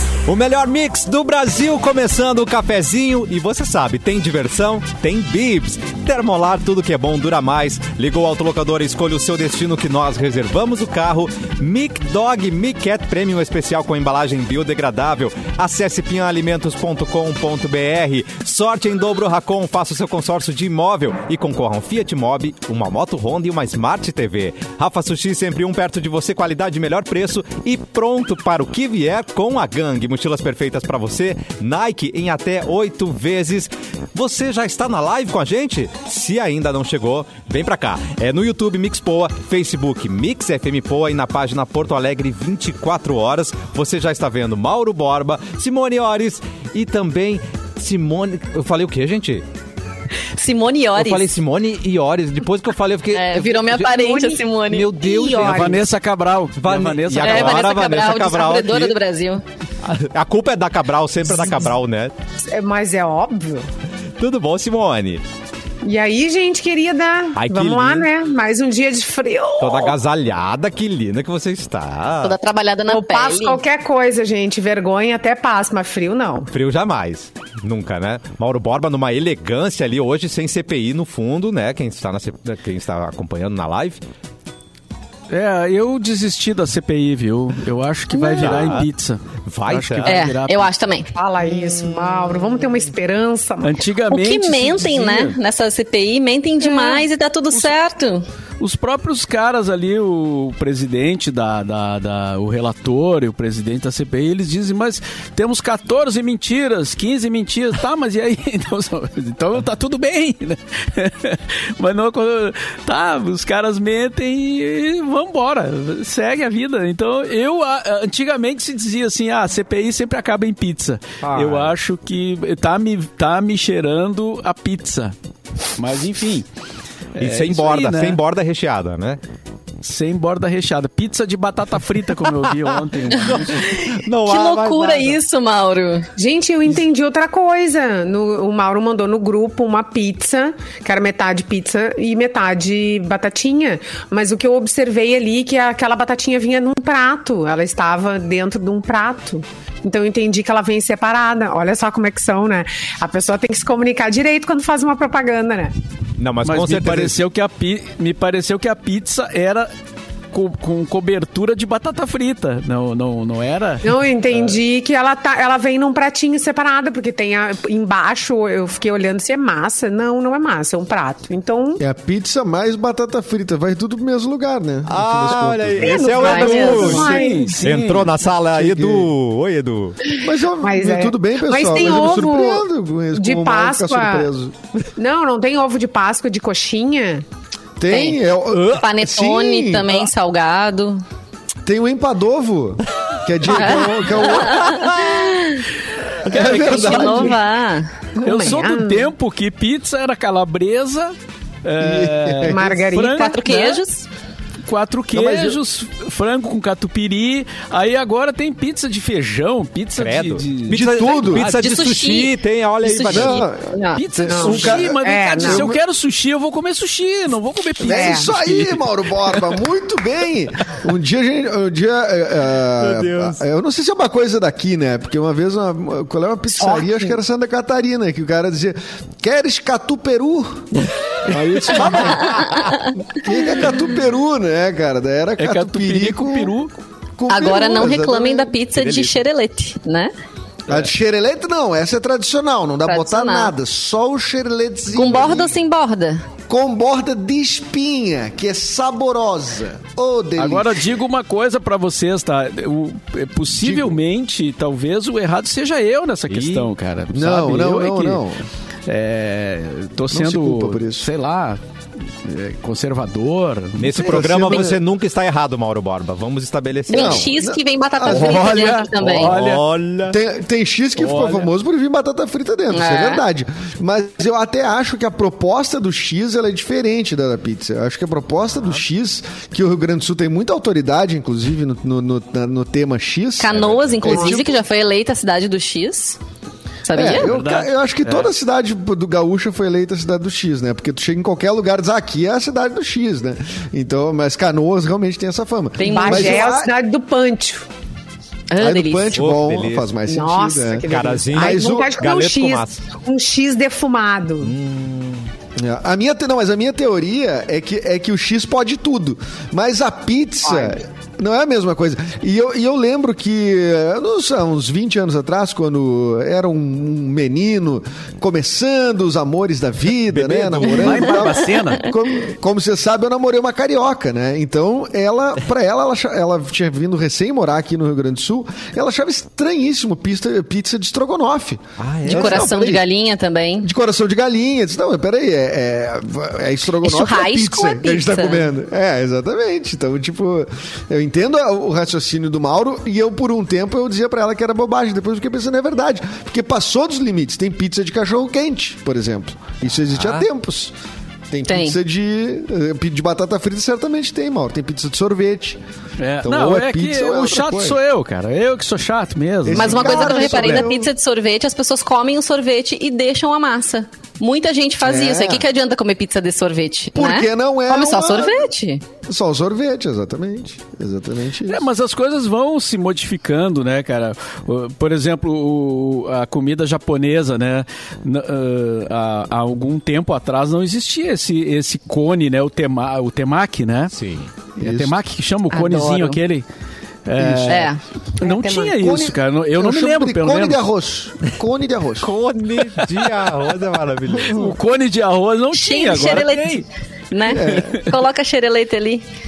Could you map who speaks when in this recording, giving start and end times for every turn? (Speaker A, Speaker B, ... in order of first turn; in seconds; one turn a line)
Speaker A: 0.2-49.4
Speaker B: 50.3-51.3
Speaker A: 50.9-55.8
Speaker B: 53.1-54.9
Speaker C: 53.9-55.8
Speaker D: 55.4-57.7
Speaker A: 56.6-59.0
Speaker B: 57.2-59.4
Speaker A: 59.8-62.1
Speaker C: 62.5-63.6
Speaker A: 64.2-65.2
Speaker C: 65.8-70.0
Speaker A: 67.3-68.1
Speaker A: 69.6-72.3
Speaker B: 72.2-73.6
Speaker C: 72.9-76.5
Speaker A: 76.5-84.0
Speaker D: 85.3-90.7
Speaker B: 88.1-88.8
Speaker A: 88.4-88.9
Speaker A: 89.4-90.2
Speaker B: 90.0-91.1
Speaker C: 91.1-93.8
Speaker D: 93.6-95.4
Speaker B: 94.1-98.2
Speaker C: 96.7-97.0
Speaker D: 98.6-125.1
Speaker A: 121.2-121.7
Speaker D: 125.8-126.5
Speaker D: 127.2-128.2
Speaker A: 127.2-129.2
Speaker D: 129.8-133.6
Speaker A: 133.1-135.2
Speaker B: 133.5-136.1
Speaker C: 136.2-155.7
Speaker A: 156.2-157.2
Speaker D: 156.4-159.7
Speaker D: 160.3-164.6
Speaker C: 163.8-171.8
Speaker E: 171.8-176.4
Speaker A: 174.8-179.9
Speaker C: 175.8-177.7
Speaker B: 176.2-177.2
Speaker D: 176.6-178.1
Speaker E: 178.5-179.1
Speaker E: 180.2-184.5
Speaker C: 180.6-184.3
Speaker C: 184.8-187.2
Speaker E: 187.8-190.1
Speaker B: 187.9-191.0
Speaker E: 191.6-194.9
Speaker B: 193.5-195.6
Speaker A: 194.7-195.2
Speaker E: 196.2-197.4
Speaker B: 196.3-197.9
Speaker D: 196.3-197.3
Speaker C: 198.2-199.1
Speaker D: 198.2-203.8
Speaker E: 201.8-202.6
Speaker C: 202.4-203.7
Speaker B: 203.1-204.1
Speaker D: 204.6-211.6
Speaker E: 205.1-205.6
Speaker A: 210.0-213.4
Speaker E: 210.7-211.5
Speaker B: 211.4-214.0
Speaker E: 213.1-215.8
Speaker D: 213.9-219.6
Speaker C: 214.3-215.7
Speaker E: 217.8-236.5
Speaker C: 217.8-218.3
Speaker A: 222.8-223.4
Speaker C: 226.6-227.2
Speaker B: 232.0-232.9
Speaker A: 232.5-232.8
Speaker D: 235.4-236.7
Speaker E: 237.2-238.5
Speaker B: 237.3-240.1
Speaker A: 238.7-239.2
Speaker E: 240.7-245.5
Speaker B: 242.8-243.5
Speaker B: 244.9-246.2
Speaker E: 246.5-250.8
Speaker D: 250.4-258.2
Speaker E: 253.6-254.0
Speaker A: 256.3-256.7
Speaker E: 257.1-258.4
Speaker D: 258.9-261.6
Speaker E: 260.1-261.1
Speaker D: 262.2-264.6
Speaker A: 263.8-267.2
Speaker E: 263.9-264.8
Speaker B: 266.9-269.4
Speaker E: 266.9-268.8
Speaker D: 268.1-269.6
Speaker A: 269.0-270.2
Speaker E: 270.1-284.6
Speaker D: 271.0-271.5
Speaker B: 272.7-273.2
Speaker B: 283.4-286.2
Speaker A: 283.5-284.0
Speaker C: 284.0-284.4
Speaker B: 286.8-287.3
Speaker E: 286.9-296.7
Speaker D: 287.0-288.3
Speaker B: 295.8-296.5
Speaker C: 295.8-297.6
Speaker B: 298.5-299.2
Speaker E: 298.6-301.9
Speaker A: 299.1-299.9
Speaker C: 300.0-304.5
Speaker A: 300.9-302.8
Speaker A: 304.4-305.3
Speaker E: 305.6-332.8
Speaker C: 310.5-310.8
Speaker D: 320.1-321.9
Speaker A: 331.8-332.5
Speaker B: 332.1-333.7
Speaker E: 333.6-350.7
Speaker B: 336.8-338.5
Speaker A: 349.9-350.2
Speaker E: 351.3-355.6
Speaker B: 351.5-351.8
Speaker D: 356.0-360.6
Speaker E: 356.2-357.8
Speaker E: 359.4-360.9
Speaker B: 359.5-368.8
Speaker E: 364.8-365.4
Speaker E: 366.9-368.5
Speaker E: 369.1-371.6
Speaker D: 371.4-383.9
Speaker A: 383.9-384.3
Speaker D: 384.6-386.4
Speaker E: 384.6-384.9
Speaker B: 385.5-386.2
Speaker D: 387.1-390.6
Speaker E: 387.1-387.7
Speaker B: 387.5-387.8
Speaker C: 388.2-388.8
Speaker E: 388.8-392.1
Speaker A: 392.0-394.5
Speaker D: 394.2-396.6
Speaker B: 395.5-399.1
Speaker E: 397.3-397.8
Speaker D: 397.4-397.9